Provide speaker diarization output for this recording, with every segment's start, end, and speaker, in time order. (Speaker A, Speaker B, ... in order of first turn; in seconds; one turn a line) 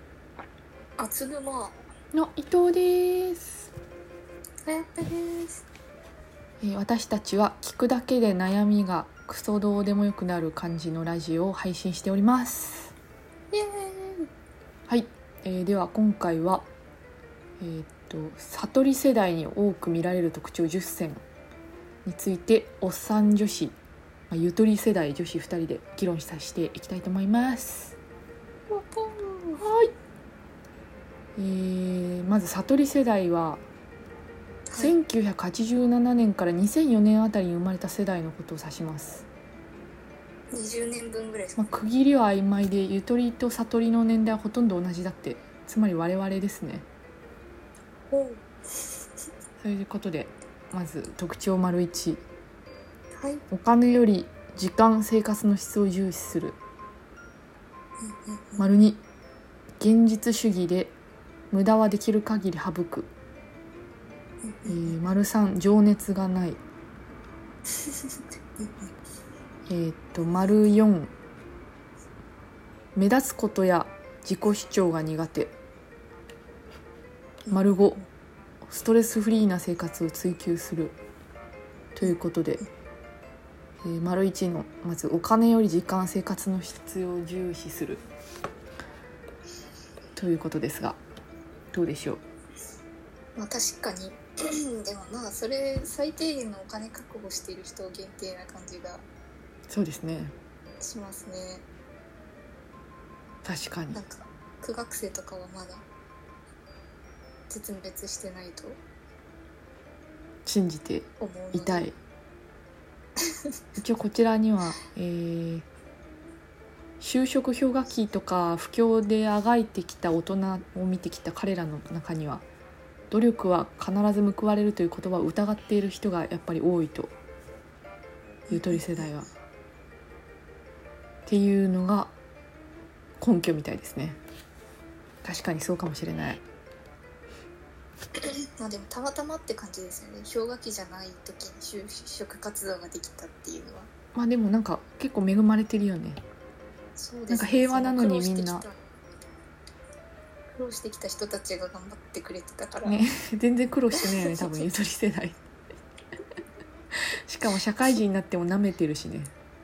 Speaker A: 1.0-1.8
Speaker B: 2.1-3.7
Speaker A: 4.6-5.6
Speaker B: 6.6-12.9
Speaker A: 13.5-14.2
Speaker B: 14.9-16.7
Speaker B: 17.6-21.2
Speaker B: 22.0-23.7
Speaker B: 24.3-27.9
Speaker B: 28.7-29.9
Speaker B: 31.4-33.6
Speaker A: 34.7-35.0
Speaker B: 34.8-39.2
Speaker A: 40.5-41.7
Speaker B: 41.6-46.9
Speaker A: 48.1-48.5
Speaker B: 49.6-52.2
Speaker A: 53.2-53.4
Speaker B: 53.5-56.6
Speaker A: 58.0-58.7
Speaker B: 58.6-59.0
Speaker B: 59.8-60.9
Speaker B: 61.5-63.1
Speaker A: 64.4-65.0
Speaker B: 64.7-66.6
Speaker A: 67.8-68.9
Speaker B: 69.7-71.1
Speaker B: 72.9-75.5
Speaker A: 77.4-78.0
Speaker B: 77.5-78.0
Speaker B: 78.7-81.0
Speaker B: 82.0-82.6
Speaker B: 83.8-88.0
Speaker B: 90.2-91.0
Speaker B: 91.7-92.2
Speaker A: 93.3-94.2
Speaker A: 94.7-99.0
Speaker B: 99.7-100.3
Speaker A: 100.8-101.7
Speaker B: 103.4-104.0
Speaker A: 103.9-105.8
Speaker A: 107.5-108.8
Speaker B: 110.5-112.0
Speaker A: 111.2-111.9
Speaker B: 113.8-115.7
Speaker B: 117.0-122.4
Speaker B: 123.1-127.1
Speaker A: 128.5-129.1
Speaker B: 128.5-129.3
Speaker B: 131.2-132.1
Speaker B: 133.2-134.2
Speaker B: 135.2-136.4
Speaker A: 138.6-143.9
Speaker B: 144.1-146.2
Speaker A: 147.0-148.8
Speaker B: 147.3-148.7
Speaker A: 150.5-153.0
Speaker B: 152.8-155.4
Speaker B: 157.2-159.3